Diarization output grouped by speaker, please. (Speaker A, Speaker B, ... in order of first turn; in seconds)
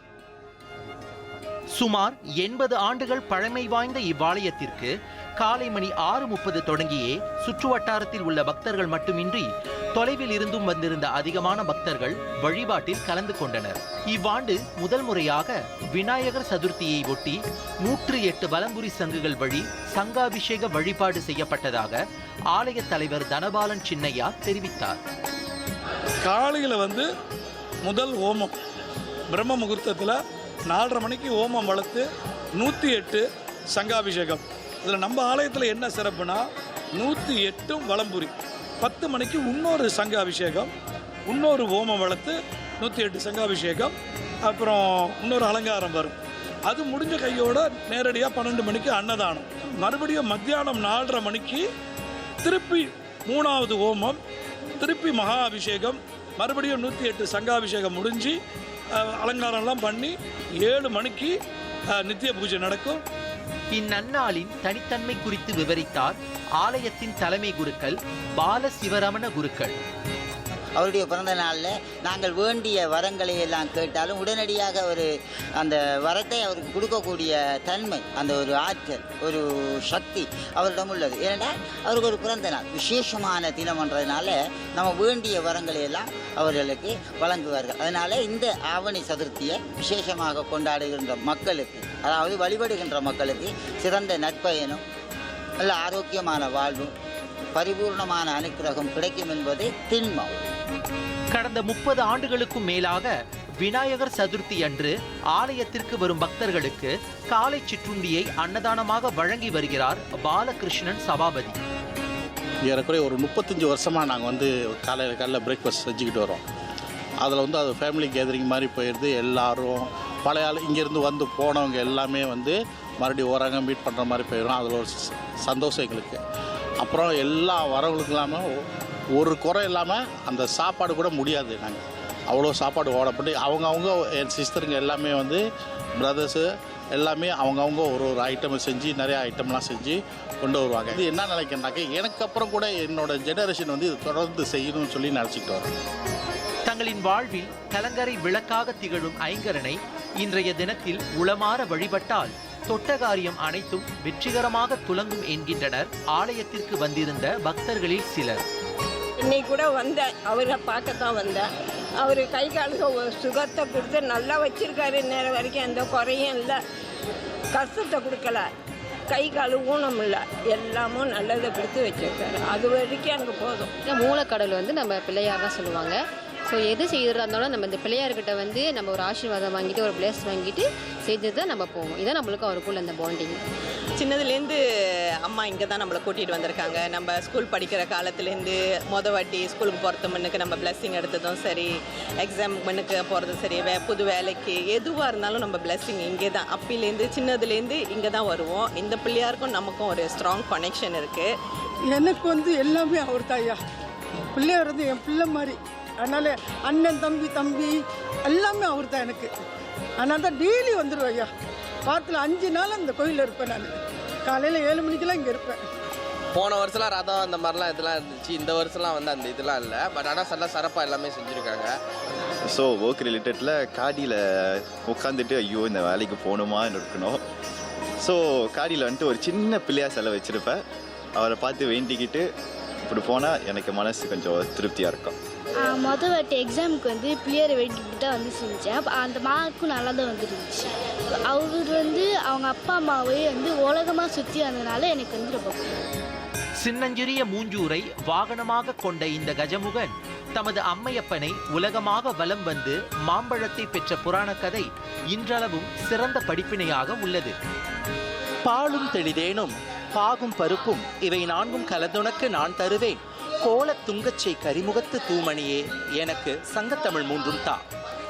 Speaker A: 1.7-22.0, 22.5-25.0, 63.7-69.8, 101.3-111.6, 146.7-158.4, 246.6-257.4, 258.4-267.6
Speaker B: 26.2-27.0, 27.9-28.5, 29.3-30.1, 30.7-32.0, 32.6-33.2, 33.7-36.4, 37.0-38.3, 38.8-40.7, 41.3-43.9, 44.5-46.1, 46.7-51.6, 52.4-54.2, 54.8-58.3, 59.1-61.3, 62.0-63.0
Speaker C: 70.8-94.8, 95.6-96.9, 97.5-100.3
Speaker D: 112.7-116.4, 117.2-126.2, 126.8-128.5, 129.2-135.4, 136.0-145.7
Speaker E: 159.2-166.6, 167.5-168.5, 169.1-173.7
Speaker F: 173.9-183.4
Speaker G: 184.0-184.6, 185.2-191.7, 192.2-201.3
Speaker H: 201.9-203.6, 204.3-207.7, 208.3-209.3, 210.0-211.3, 211.9-213.7, 214.3-215.6
Speaker I: 216.3-221.8
Speaker J: 222.5-227.2, 228.0-230.6, 231.2-232.3, 232.8-235.2
Speaker K: 235.6-240.7, 241.2-245.7